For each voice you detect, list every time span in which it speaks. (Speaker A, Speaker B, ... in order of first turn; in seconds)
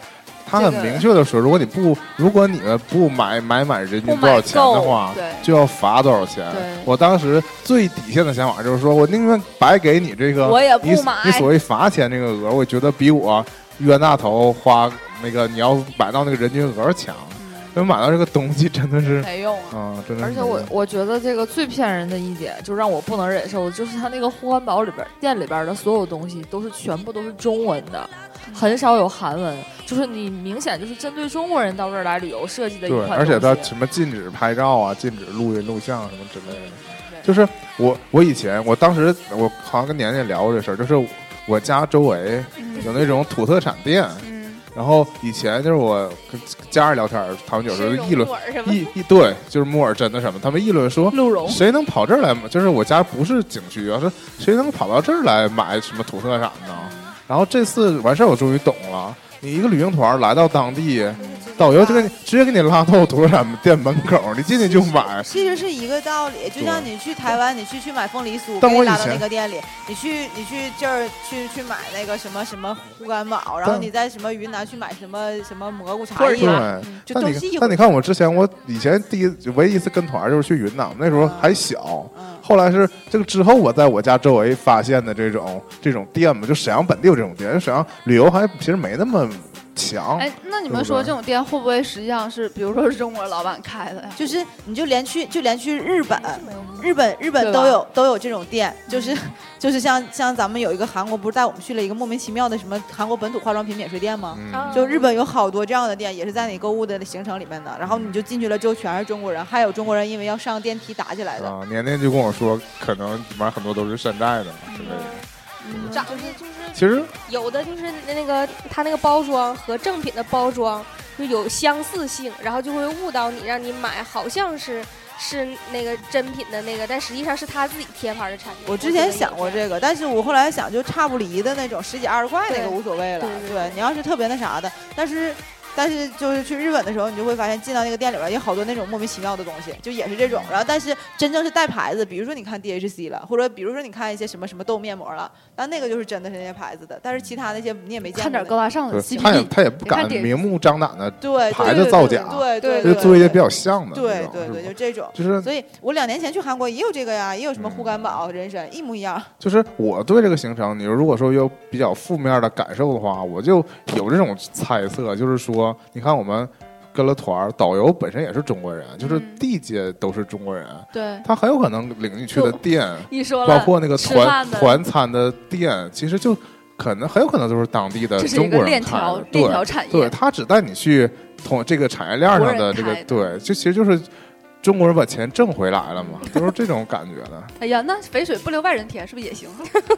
Speaker A: 0.4-20.7, 32.9-65.3, 66.5-66.9, 68.6-69.3, 73.6-73.9, 76.1-91.1, 104.3-104.8, 107.8-108.2, 111.4-116.0, 116.7-117.1, 140.2-140.6, 148.9-155.5, 157.5-158.2, 159.4-184.1, 184.6-187.5
Speaker B: 0.5-1.1, 4.0-5.5, 6.5-6.9, 10.4-11.5, 17.4-17.8, 19.2-19.8, 42.6-43.0, 44.2-44.6, 51.1-51.6, 56.8-57.1, 61.2-61.5, 76.7-77.0, 90.2-94.3, 97.4-97.8, 98.9-99.2, 114.7-115.0, 115.6-116.3, 148.1-150.3, 169.0-169.4, 170.9-171.3, 172.3-174.8, 178.2-180.1, 182.3-183.4, 186.0-186.4, 187.6-189.7
Speaker C: 20.2-33.7
Speaker D: 42.8-43.1, 47.7-48.9, 61.2-61.6, 96.1-96.8, 104.5-105.1, 114.7-115.2, 115.9-129.6, 132.5-133.8, 151.6-153.3
Speaker E: 61.6-62.1, 65.3-78.0, 81.1-81.6, 82.1-82.4, 94.2-111.5, 128.7-148.6, 151.2-159.3